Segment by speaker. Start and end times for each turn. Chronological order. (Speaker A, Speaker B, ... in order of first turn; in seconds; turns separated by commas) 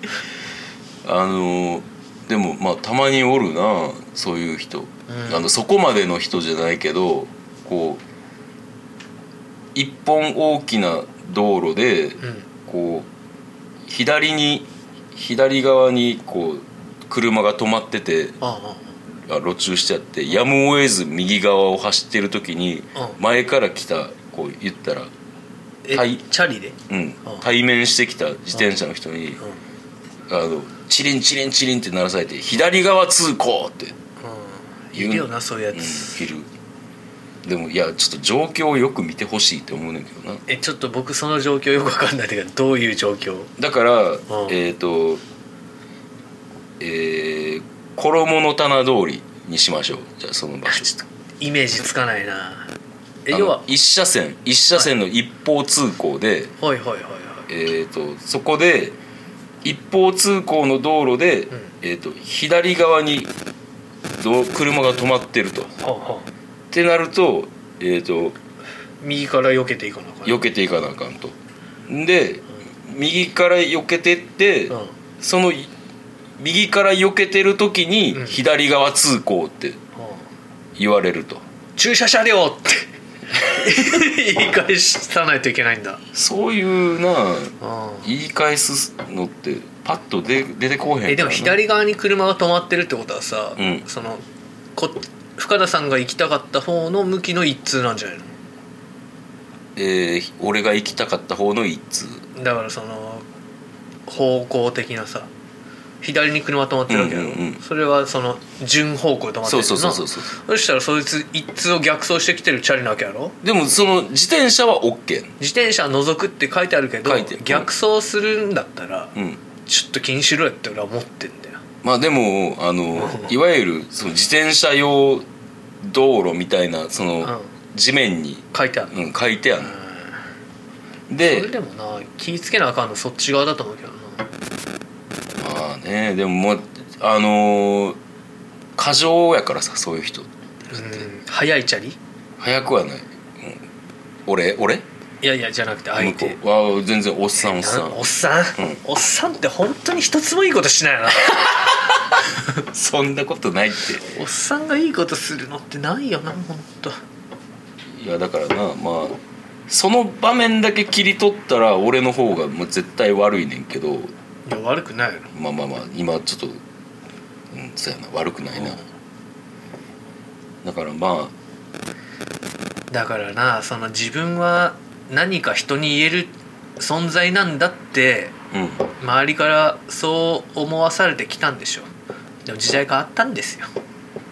Speaker A: 1.0-8.0, Speaker B: 5.1-5.5, Speaker A: 9.8-13.1, Speaker B: 12.2-12.5, Speaker A: 13.9-18.4, Speaker B: 18.4-19.0, Speaker A: 19.2-25.1, Speaker B: 25.9-27.4, Speaker A: 25.9-26.2, Speaker A: 26.9-29.4, Speaker A: 30.3-34.0, Speaker B: 34.2-36.2, Speaker A: 34.9-36.5, Speaker A: 37.4-40.4, Speaker B: 40.5-43.5, Speaker A: 43.6-45.2, Speaker B: 44.3-44.6, Speaker A: 46.8-50.9, Speaker B: 50.7-52.7, Speaker B: 53.2-53.7, Speaker A: 53.3-56.5, Speaker B: 56.6-57.5, Speaker A: 57.5-59.0, Speaker A: 59.6-63.3, Speaker A: 64.2-65.7, Speaker B: 65.8-66.3, Speaker A: 66.7-68.4, Speaker B: 69.0-70.5, Speaker A: 70.2-71.4, Speaker A: 71.9-75.7, Speaker B: 74.7-75.0, Speaker A: 76.4-79.8, Speaker B: 78.1-78.4, Speaker B: 80.0-80.2, Speaker A: 80.8-81.4, Speaker B: 81.8-86.0, Speaker A: 86.1-91.6, Speaker B: 87.6-88.1, Speaker B: 91.1-94.2, Speaker A: 93.6-93.8, Speaker B: 94.8-98.3, Speaker A: 99.8-102.2, Speaker B: 102.3-103.2, Speaker B: 104.1-105.3, Speaker B: 106.0-113.4, Speaker A: 106.9-107.6, Speaker A: 109.5-110.3, Speaker A: 113.4-115.3, Speaker B: 115.4-119.2, Speaker A: 117.0-117.7, Speaker B: 119.7-121.6, Speaker A: 121.8-125.3, Speaker B: 123.0-123.3, Speaker A: 125.8-129.8, Speaker B: 128.5-128.9, Speaker B: 129.6-130.1, Speaker A: 131.1-131.5, Speaker B: 131.2-134.3, Speaker A: 135.4-138.0, Speaker A: 138.8-141.1, Speaker B: 140.7-142.0, Speaker A: 142.4-143.7, Speaker A: 144.3-144.8, Speaker B: 145.2-146.4, Speaker A: 146.0-148.8, Speaker B: 147.4-151.8, Speaker A: 152.6-154.1, Speaker B: 154.1-157.0, Speaker A: 157.9-164.1, Speaker B: 164.5-165.3, Speaker A: 165.3-166.6, Speaker A: 167.5-168.8, Speaker B: 168.6-168.9, Speaker A: 170.6-171.3, Speaker B: 172.9-178.3, Speaker A: 178.5-178.9, Speaker B: 179.0-181.9, Speaker B: 182.5-183.7